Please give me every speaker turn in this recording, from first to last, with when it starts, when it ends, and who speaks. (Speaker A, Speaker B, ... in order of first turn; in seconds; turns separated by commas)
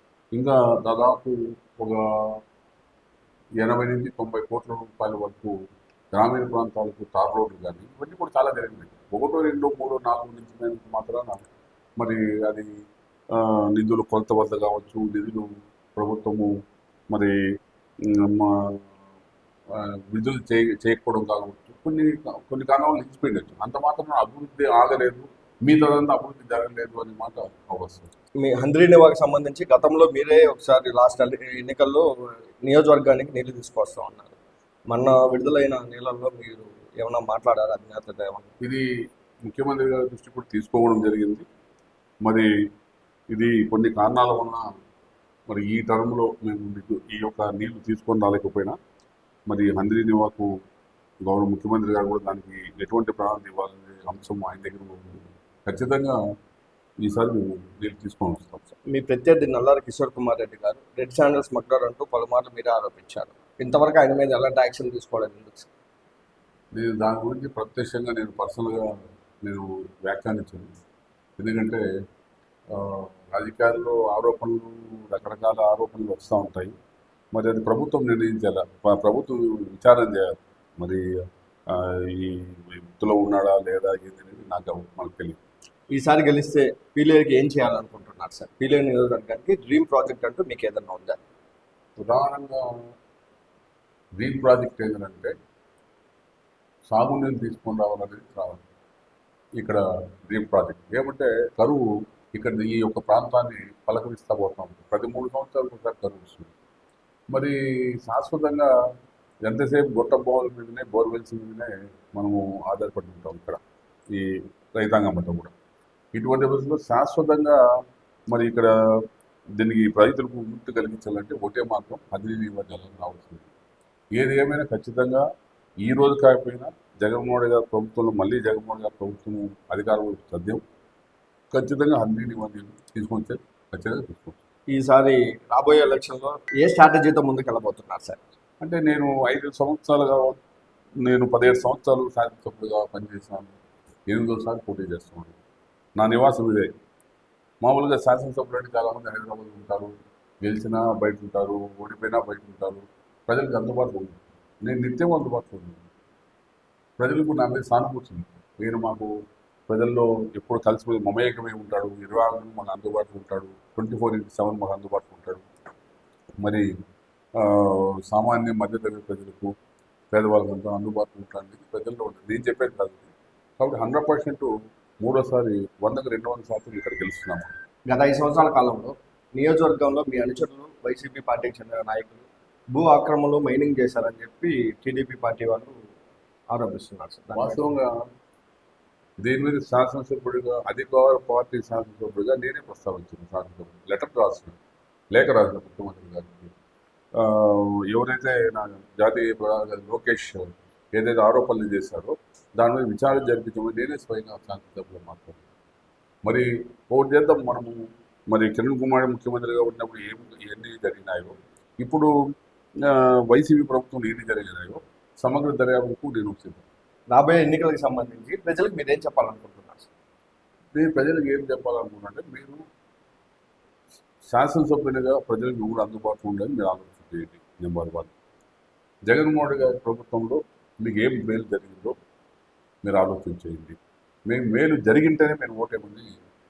Speaker A: 0.3-2.4, Speaker A: 3.6-5.5, Speaker A: 6.1-11.4, Speaker A: 12.0-12.7, Speaker A: 13.3-16.5, Speaker A: 18.0-18.9, Speaker A: 19.7-28.1, Speaker B: 28.4-32.1, Speaker B: 32.6-34.4, Speaker B: 34.9-38.5, Speaker A: 39.5-41.5, Speaker A: 43.3-44.7, Speaker A: 45.5-48.8, Speaker A: 49.5-50.5, Speaker A: 51.2-56.2, Speaker A: 57.0-58.7, Speaker B: 58.9-65.7, Speaker A: 66.7-70.7, Speaker A: 71.4-71.8, Speaker A: 72.7-76.7, Speaker A: 77.3-81.1, Speaker A: 81.7-85.4, Speaker B: 85.9-91.2, Speaker A: 92.0-92.7, Speaker A: 94.2-95.3, Speaker A: 96.9-98.6, Speaker A: 99.6-106.5, Speaker A: 107.3-108.7, Speaker A: 109.5-113.6, Speaker A: 114.1-115.5, Speaker A: 116.1-117.6, Speaker A: 118.3-118.7, Speaker A: 119.6-123.5, Speaker A: 124.2-125.2, Speaker A: 125.8-130.6, Speaker A: 131.5-134.4, Speaker B: 134.7-138.2, Speaker A: 138.6-140.4, Speaker A: 141.0-143.6, Speaker A: 144.1-145.4, Speaker A: 146.0-146.7, Speaker A: 147.6-149.9, Speaker A: 150.4-155.9, Speaker A: 157.0-159.1, Speaker A: 159.7-165.5, Speaker A: 167.4-169.5, Speaker A: 170.1-177.5, Speaker B: 177.9-185.8, Speaker B: 186.5-187.7, Speaker A: 187.3-187.9, Speaker A: 189.2-194.6, Speaker A: 195.1-196.5, Speaker A: 197.2-205.4, Speaker A: 206.2-212.1, Speaker A: 212.8-216.7, Speaker B: 217.1-219.9, Speaker A: 220.8-222.6, Speaker A: 224.3-228.1, Speaker A: 229.1-231.9, Speaker A: 232.8-233.8, Speaker A: 234.3-236.1